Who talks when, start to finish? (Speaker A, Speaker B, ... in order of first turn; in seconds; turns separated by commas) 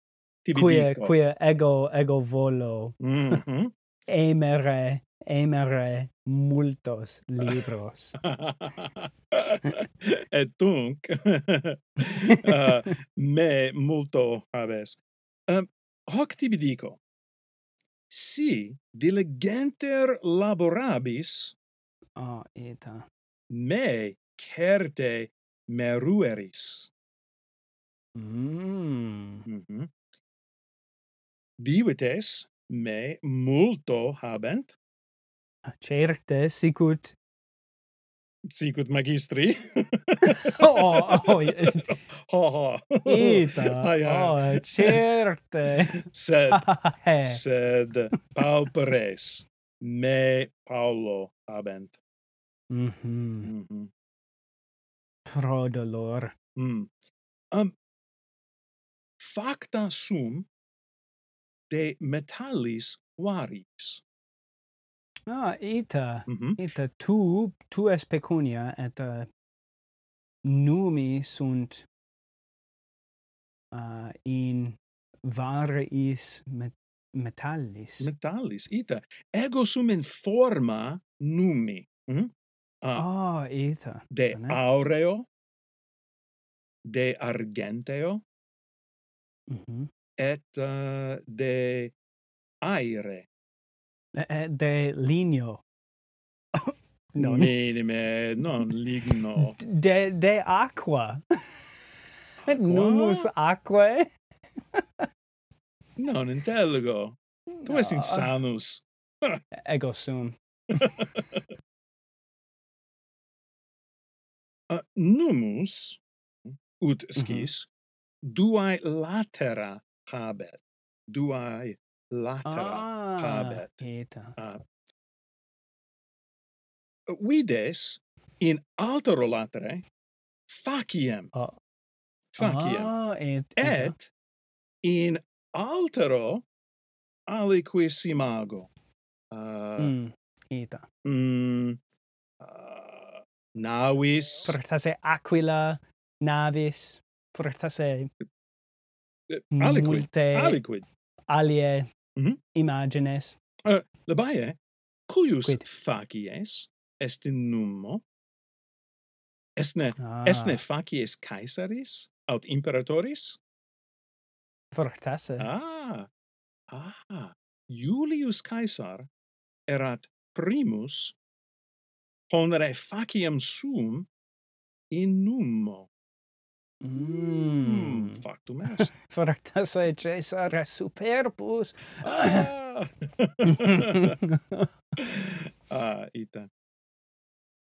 Speaker A: 0.4-1.1, Speaker B: 0.5-3.0, Speaker A: 3.0-3.7, Speaker B: 4.1-8.2, Speaker A: 7.4-7.7, Speaker A: 8.2-17.0, Speaker A: 18.1-21.6, Speaker B: 22.2-23.1, Speaker A: 23.5-26.9, Speaker B: 28.1-29.4, Speaker A: 29.5-29.9, Speaker A: 31.6-34.8, Speaker B: 35.7-37.1, Speaker A: 38.5-45.0, Speaker B: 40.3-42.0, Speaker B: 43.0-47.4, Speaker A: 45.8-46.7, Speaker A: 47.2-52.0, Speaker B: 52.7-53.5, Speaker A: 53.5-53.9, Speaker B: 55.3-56.4, Speaker A: 56.6-56.9, Speaker A: 59.2-60.5, Speaker A: 61.7-64.0, Speaker B: 65.3-69.3, Speaker A: 66.3-66.6, Speaker B: 70.4-71.9, Speaker B: 73.7-78.1, Speaker A: 78.0-82.3, Speaker B: 83.0-84.6, Speaker A: 84.1-85.3, Speaker A: 86.8-88.2, Speaker B: 89.5-89.9, Speaker A: 90.2-92.0, Speaker A: 92.6-93.3, Speaker B: 94.2-95.6, Speaker B: 96.5-97.5, Speaker A: 97.2-99.6, Speaker B: 99.4-101.2, Speaker A: 102.4-103.3, Speaker B: 102.4-104.1, Speaker A: 106.0-109.4, Speaker B: 107.6-108.3, Speaker B: 109.6-110.9, Speaker A: 110.8-111.2, Speaker A: 114.7-117.7, Speaker B: 117.2-117.5, Speaker A: 118.3-124.6, Speaker B: 122.5-124.3, Speaker A: 127.1-129.8, Speaker A: 130.5-131.3, Speaker A: 132.3-132.9, Speaker B: 132.4-133.9, Speaker A: 133.6-134.1, Speaker A: 134.8-136.4, Speaker A: 137.3-138.7, Speaker A: 139.3-139.9, Speaker B: 139.8-140.9, Speaker A: 141.1-141.8, Speaker A: 142.4-144.6, Speaker B: 144.4-148.1, Speaker A: 149.3-150.9, Speaker B: 149.6-150.6, Speaker B: 151.3-151.9, Speaker B: 152.5-153.4, Speaker A: 153.7-158.1, Speaker A: 159.6-163.4, Speaker B: 160.0-160.6, Speaker B: 164.7-165.5, Speaker A: 165.4-166.1, Speaker A: 166.7-169.1, Speaker A: 169.7-171.2, Speaker A: 172.3-174.1, Speaker A: 174.9-175.9, Speaker B: 176.8-182.5, Speaker A: 177.0-178.9, Speaker A: 182.0-184.1, Speaker B: 183.4-184.7, Speaker A: 185.0-186.5